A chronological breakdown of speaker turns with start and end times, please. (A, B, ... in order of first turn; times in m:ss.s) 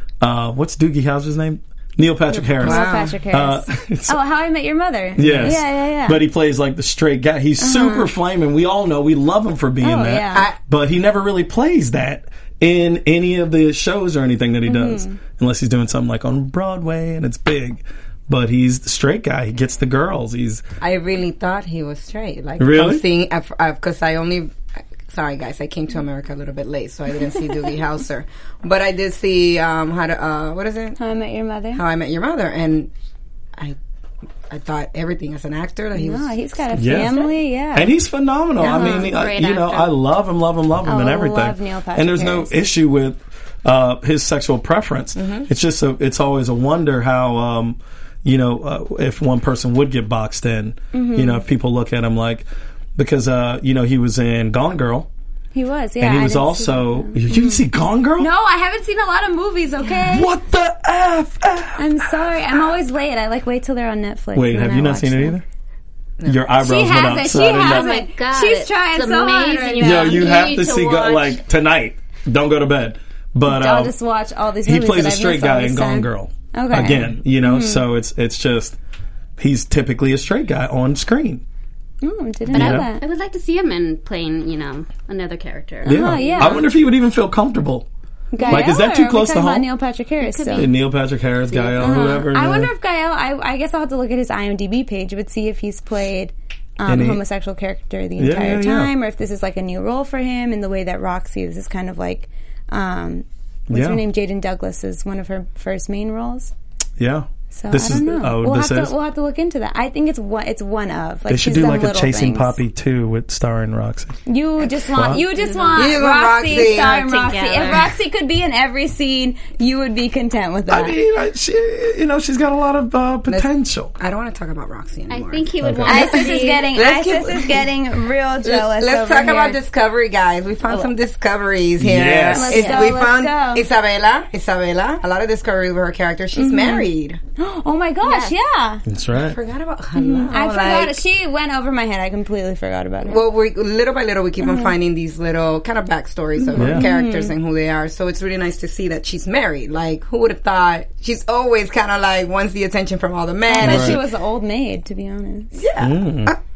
0:00.2-0:04.2 A
0:02.4-0:06.2 B
0:02.6-0:03.2 C
0:05.2-0:20.6 A
0:07.6-0:08.1 B
0:09.8-0:10.5 B
0:14.6-0:15.2 B
0:20.8-0:31.0 C
0:22.6-0:23.0 A
0:31.0-0:31.8 B
0:31.7-0:32.9 C
0:34.5-0:36.3 C
0:35.9-0:37.9 B
0:36.7-0:55.1 A
0:38.6-0:39.1 B
0:38.6-0:39.9 D
0:40.8-0:42.6 B
0:45.2-0:45.5 C
0:50.9-0:51.4 B
0:55.5-0:57.6 B
0:56.0-0:58.3 A
0:58.2-1:00.3 B
0:59.9-1:01.9 A
1:01.8-1:05.4 B
1:04.3-1:05.4 A
1:06.2-1:07.9 A
1:06.6-1:10.4 B
1:07.4-1:11.4 D
1:09.8-1:13.9 A
1:13.4-1:17.9 B
1:14.6-1:18.8 A
1:19.4-1:21.4 A
1:22.0-1:23.0 B
1:22.5-1:22.9 A
1:22.5-1:26.6 D
1:25.8-1:27.9 A
1:25.9-1:26.6 B
1:28.3-1:30.7 B
1:28.4-1:28.7 D
1:28.5-1:29.7 A
1:30.2-1:30.7 D
1:30.5-1:32.7 A
1:31.5-1:32.1 D
1:31.8-1:46.5 B
1:36.9-1:37.2 A
1:38.2-1:38.9 A
1:43.7-1:44.0 A
1:47.0-1:48.9 A
1:47.5-1:52.6 B
1:51.3-1:54.2 A
1:54.2-2:01.0 B
1:54.8-1:55.2 A
1:55.3-1:57.9 D
1:55.7-1:56.9 C
2:00.7-2:03.9 A
2:03.3-2:07.7 C
2:05.1-2:06.7 D
2:05.6-2:06.1 A
2:05.8-2:09.6 B
2:08.4-2:17.2 C
2:11.8-2:12.7 A
2:12.3-2:13.6 B
2:12.5-2:13.0 D
2:16.4-2:18.8 B
2:18.0-2:18.3 D
2:18.9-2:19.4 A
2:19.1-2:21.0 C
2:19.9-2:23.2 B
2:23.0-2:34.0 C
2:24.4-2:24.7 B
2:26.4-2:26.7 D
2:26.6-2:26.9 A
2:26.6-2:27.3 B
2:33.4-2:35.6 B
2:33.6-2:34.0 A
2:35.5-2:36.4 C
2:35.8-2:36.3 A